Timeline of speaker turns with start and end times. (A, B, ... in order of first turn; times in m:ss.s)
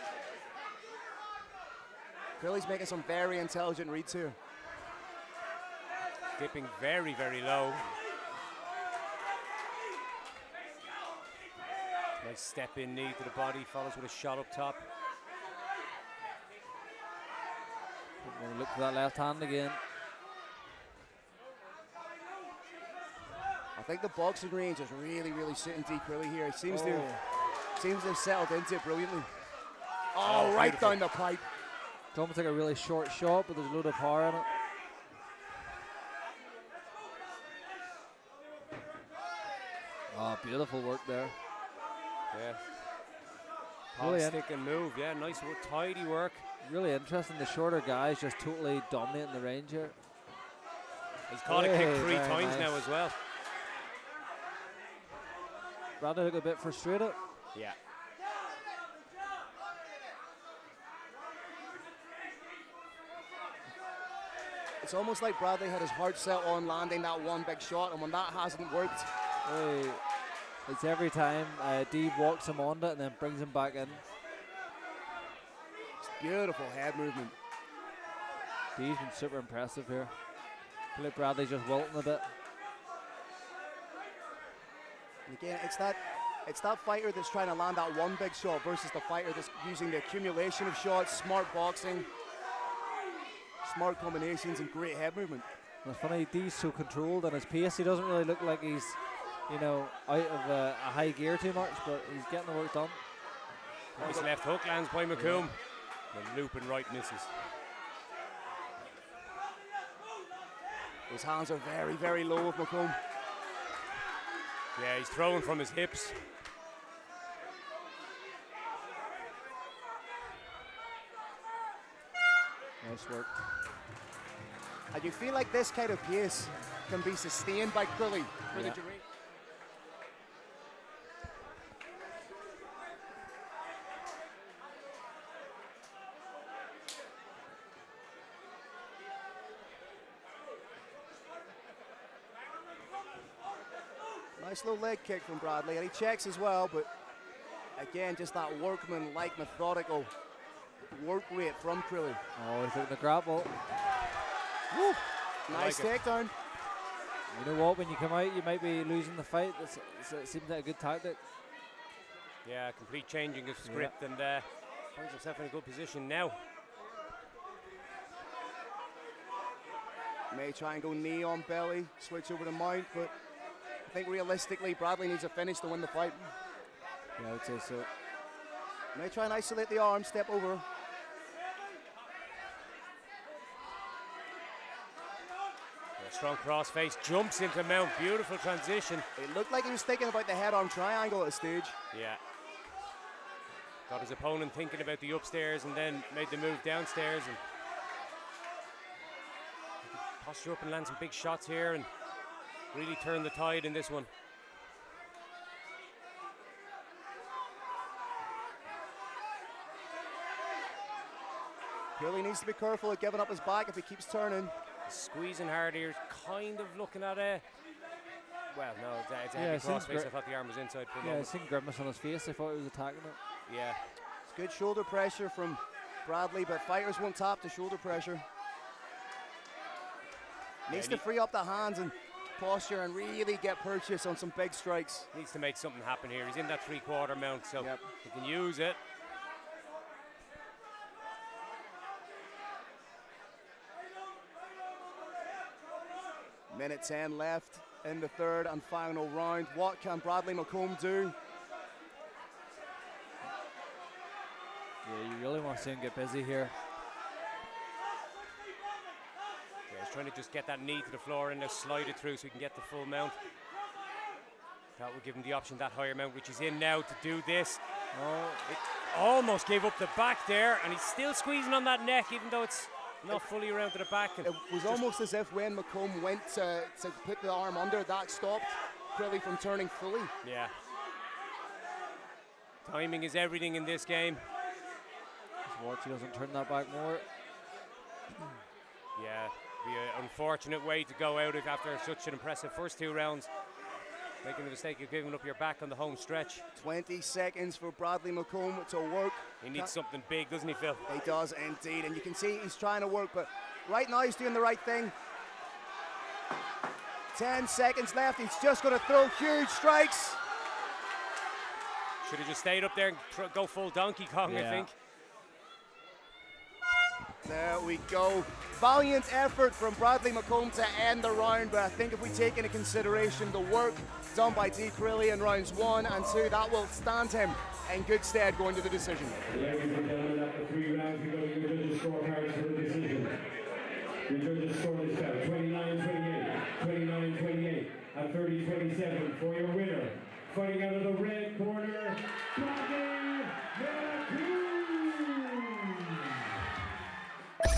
0:02.4-0:04.4 A
0:06.4-0:07.9 B
0:12.2-0:14.8 B
0:18.2-0:19.8 C
0:23.7-0:27.2 A
0:26.7-0:27.2 C
0:27.7-0:29.3 A
0:30.1-0:31.4 A
0:30.2-0:31.0 B
0:32.1-0:34.5 C
0:40.1-0:41.4 C
0:42.3-0:42.6 B
0:43.9-0:46.4 B
0:44.0-0:44.4 C
0:46.6-0:49.9 C
0:51.3-0:53.2 B
0:51.4-0:52.8 C
0:56.0-0:57.2 C
1:04.8-1:09.1 A
1:09.4-1:10.0 C
1:10.6-1:14.0 C
1:16.0-1:17.3 A
1:18.8-1:20.1 C
1:20.9-1:22.3 C
1:25.3-1:32.1 A
1:33.6-1:35.4 A
1:35.8-1:43.0 C
1:44.0-1:45.6 B
1:44.0-1:44.3 A
1:45.1-1:45.5 C
1:46.1-1:47.3 B
1:51.1-1:53.0 A
1:54.8-1:56.2 B
2:02.8-2:03.3 C
2:04.9-2:09.0 A
2:08.5-2:08.8 C
2:24.4-2:26.9 A
2:27.8-2:30.1 A
2:30.9-2:32.2 A
2:32.3-2:33.6 C
2:34.7-2:36.3 A
2:35.5-2:35.9 B
2:37.3-2:41.2 C
2:42.4-2:46.4 B
2:43.6-2:43.9 C
2:50.3-2:53.1 A
2:53.9-2:56.3 A
2:57.2-2:57.9 C
2:58.9-3:00.6 A
3:06.0-3:09.0 B
3:09.2-3:11.8 A
3:11.9-3:12.2 B
3:13.9-3:17.4 B
3:19.8-3:21.9 B
3:22.7-3:24.1 B
3:32.0-3:34.5 A
3:34.8-3:37.4 B
3:38.5-3:41.3 B
3:39.3-3:40.1 C
3:41.0-3:43.2 C
3:43.5-3:43.8 B
3:44.2-3:48.2 A
3:50.7-3:55.1 A
3:50.7-3:51.0 B
3:55.1-3:58.8 B
3:57.6-3:57.8 A
4:06.5-4:11.2 A
4:14.8-4:16.5 C
4:19.7-4:23.2 B
4:24.8-4:27.6 B
4:27.9-4:28.4 C
4:28.4-4:34.8 B
4:34.2-4:40.1 A
4:40.2-4:40.5 B
4:42.6-4:44.2 B
4:45.4-4:47.0 C
4:49.0-4:53.3 B
4:54.2-4:56.4 B
4:56.5-4:59.7 A
4:59.4-5:00.8 B
5:00.9-5:04.9 A
5:07.1-5:10.2 A
5:12.0-5:14.7 B
5:14.2-5:14.7 C
5:17.2-5:29.2 A
5:29.3-5:33.2 B
5:34.1-5:46.2 B